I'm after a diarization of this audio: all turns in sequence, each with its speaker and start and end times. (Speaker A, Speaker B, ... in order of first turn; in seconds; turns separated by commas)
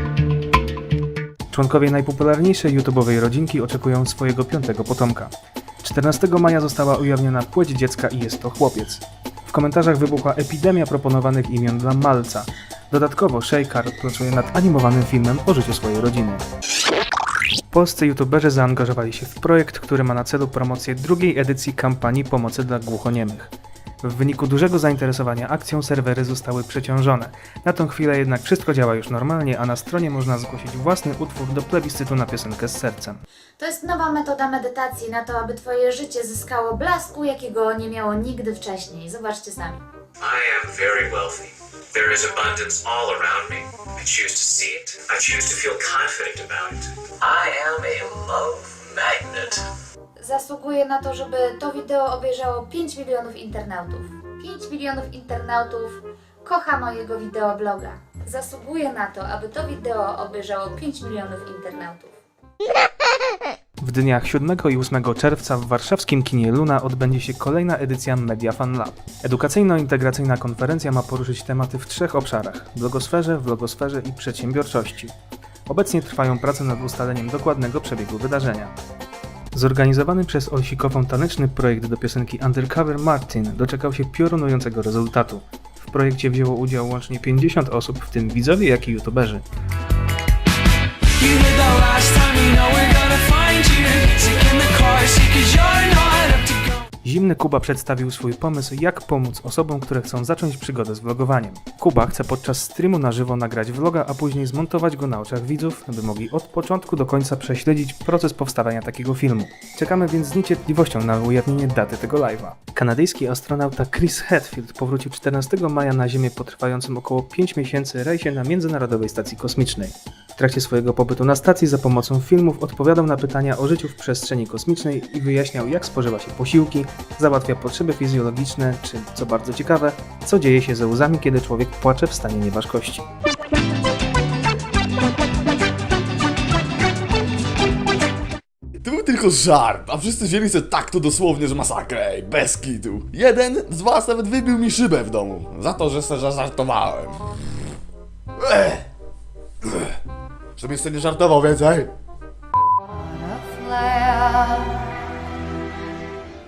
Speaker A: 1.5-16.4, Speaker A: 17.7-33.2, Speaker B: 33.6-39.8, Speaker C: 40.2-49.7, Speaker B: 50.2-62.1, Speaker A: 63.8-75.1, Speaker A: 75.7-78.7, Speaker A: 79.5-89.4, Speaker D: 91.2-96.8, Speaker A: 97.0-133.1, Speaker E: 138.8-147.3, Speaker E: 148.4-148.8, Speaker E: 149.6-149.9, Speaker E: 150.6-151.9, Speaker D: 153.2-154.7